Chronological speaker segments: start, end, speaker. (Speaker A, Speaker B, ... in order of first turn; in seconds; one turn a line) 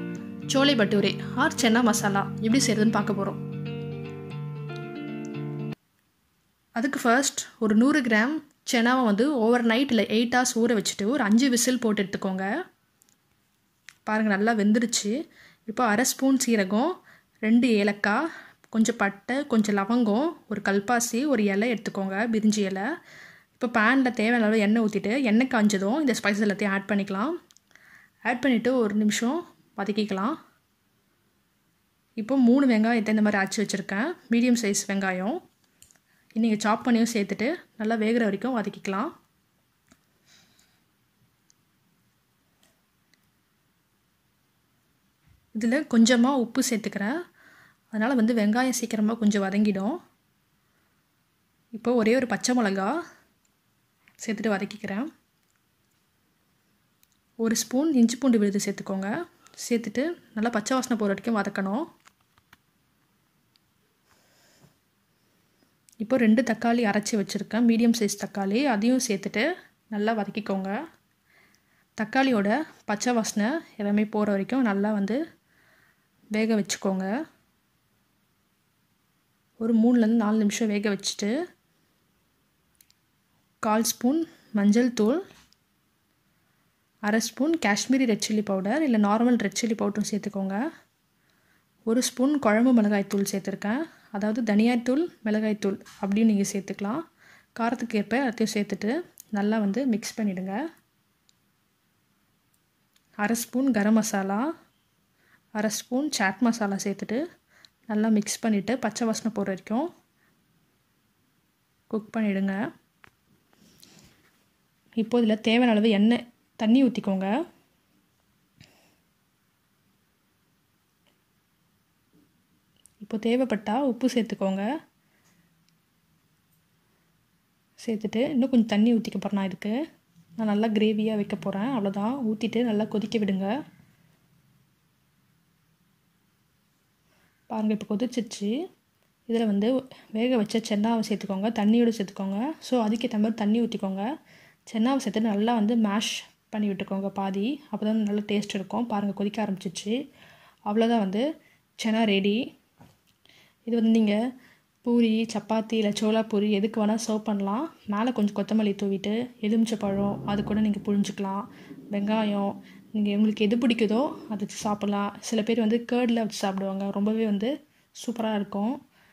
Speaker A: 0.5-3.4
Speaker A: 6.8-12.5
Speaker A: 14.1-15.1
Speaker A: 15.7-16.9
Speaker A: 17.4-18.2
Speaker A: 18.7-22.9
Speaker A: 23.6-27.3
Speaker A: 28.2-30.4
Speaker A: 32.2-35.4
Speaker A: 36.4-39.1
Speaker A: 45.5-47.1
Speaker A: 47.9-50.0
Speaker A: 51.8-53.0
Speaker A: 54.2-55.1
Speaker A: 57.4-59.1
Speaker A: 59.6-61.9
Speaker A: 66.0-70.7
Speaker A: 72.0-75.2
Speaker A: 76.3-77.1
Speaker A: 79.6-81.3
Speaker A: 83.7-85.2
Speaker A: 87.1-90.6
Speaker A: 91.9-97.0
Speaker A: 97.6-100.6
Speaker A: 103.2-104.5
Speaker A: 105.6-107.2
Speaker A: 107.9-109.9
Speaker A: 111.9-112.6
Speaker A: 115.0-117.3
Speaker A: 123.0-124.7
Speaker A: 127.8-129.8
Speaker A: 130.4-133.5
Speaker A: 137.5-138.5
Speaker A: 139.3-144.1
Speaker A: 144.7-149.9
Speaker A: 150.7-151.2
Speaker A: 151.8-152.4
Speaker A: 153.7-154.2
Speaker A: 154.8-168.8